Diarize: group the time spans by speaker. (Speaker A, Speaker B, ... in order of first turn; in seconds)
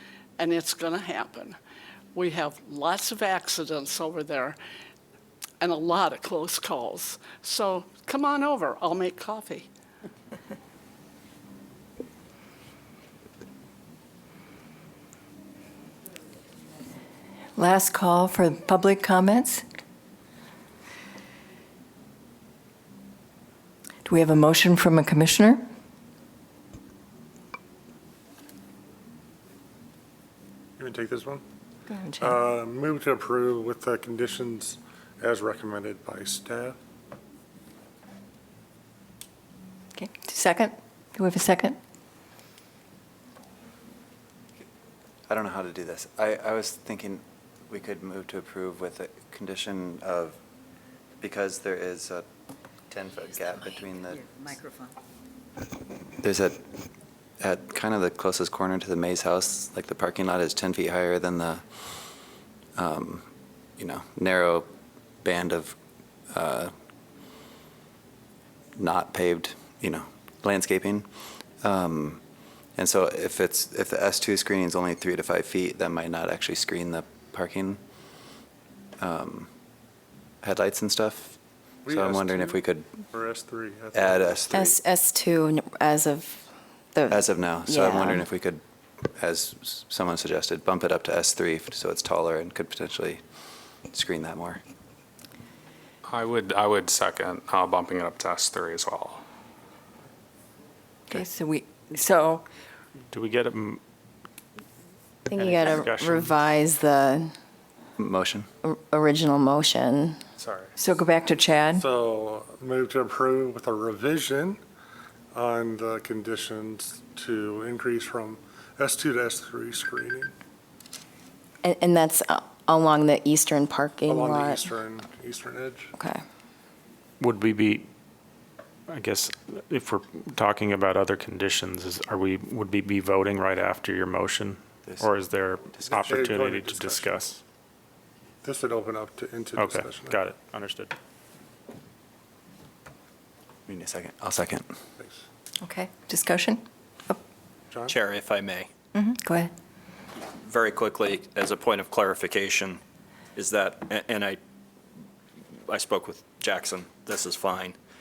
Speaker A: 0.4-1.6, 2.1-4.6, 5.6-9.7
Speaker B: 17.6-19.6, 24.1-25.6, 31.9-32.5, 40.0-41.8, 101.1-102.5, 110.8-111.8, 145.6-147.2, 148.9-149.5
Speaker C: 30.8-31.4, 32.2-36.8, 81.8-82.6, 83.1-84.7, 111.8-114.6, 115.3-120.3, 124.1-125.9, 135.9-137.1, 138.4-140.2, 145.0-145.2
Speaker D: 45.3-50.4, 51.2-52.3, 52.9-54.7, 56.2-56.7, 57.4-61.6, 62.8-63.3, 63.8-64.7, 65.2-65.8, 66.3-66.7, 68.8-71.1, 71.6-72.2, 72.8-77.8, 79.0-79.5, 80.4-81.4, 81.9-83.0, 83.9-84.6, 87.1-93.2, 93.9-94.6, 108.0-108.5, 135.7-136.1, 143.7-144.7
Speaker E: 84.5-88.2, 105.3-107.3, 108.6-110.2, 121.6-124.7, 126.0-126.2
Speaker F: 96.0-99.2, 110.4-110.8
Speaker G: 103.1-103.8, 105.3-106.5, 127.2-127.9, 128.9-137.4, 139.6-140.9
Speaker H: 147.9-148.7, 150.2-152.8, 153.4-154.4, 155.7-157.8